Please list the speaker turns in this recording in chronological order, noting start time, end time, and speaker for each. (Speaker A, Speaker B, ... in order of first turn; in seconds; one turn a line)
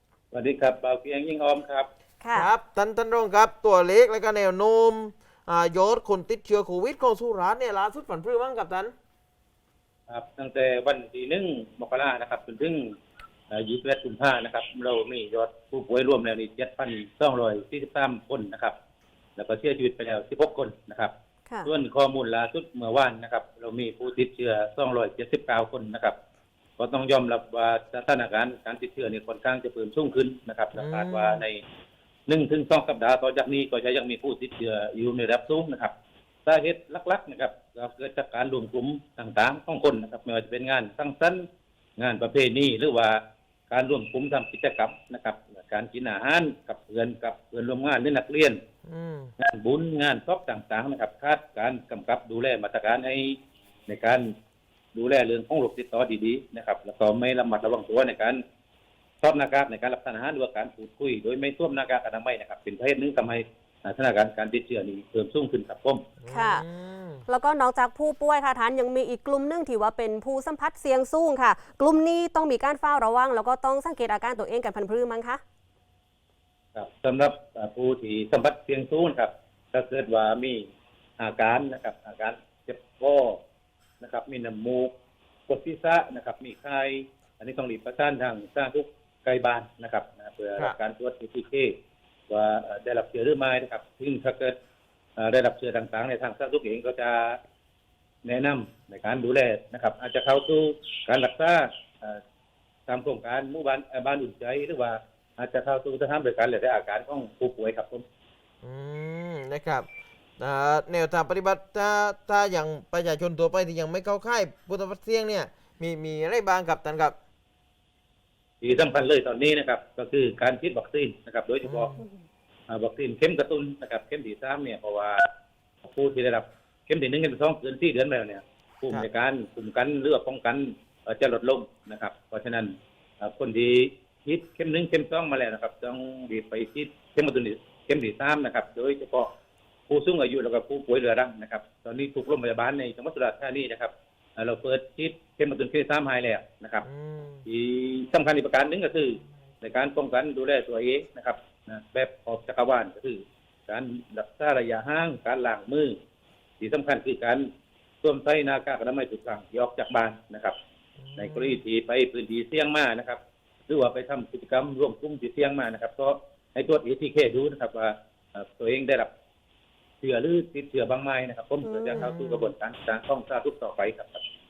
Speaker A: 0.3-1.9
Speaker B: 2.2-2.5
Speaker C: 2.3-8.9
Speaker A: 10.1-12.9
Speaker A: 13.5-18.7
Speaker A: 19.4-21.1
Speaker A: 21.6-26.1
Speaker A: 26.8-31.6
Speaker C: 30.7-31.4
Speaker A: 32.3-35.9
Speaker A: 36.5-41.5
Speaker A: 42.0-48.6
Speaker C: 48.9-49.3
Speaker A: 49.4-54.3
Speaker A: 54.9-58.4
Speaker A: 59.2-66.0
Speaker C: 66.2-67.2
Speaker B: 66.3-66.6
Speaker B: 67.3-75.4
Speaker A: 76.7-80.7
Speaker A: 81.2-83.4
Speaker A: 84.0-84.9
Speaker A: 85.5-91.8
Speaker A: 92.3-94.5
Speaker A: 95.2-97.4
Speaker A: 98.2-102.2
Speaker A: 102.9-108.0
Speaker C: 108.6-109.8
Speaker C: 110.4-117.1
Speaker A: 118.6-121.9
Speaker C: 121.6-122.0
Speaker B: 122.0-122.2
Speaker A: 122.7-125.2
Speaker A: 125.8-139.3
Speaker A: 139.9-146.8
Speaker C: 146.8-147.4
Speaker A: 147.4-156.0
Speaker A: 156.6-157.5
Speaker A: 158.0-160.6
Speaker C: 161.0-161.6
Speaker A: 161.2-169.1
Speaker A: 170.0-174.2
Speaker B: 171.6-172.2
Speaker C: 171.9-172.3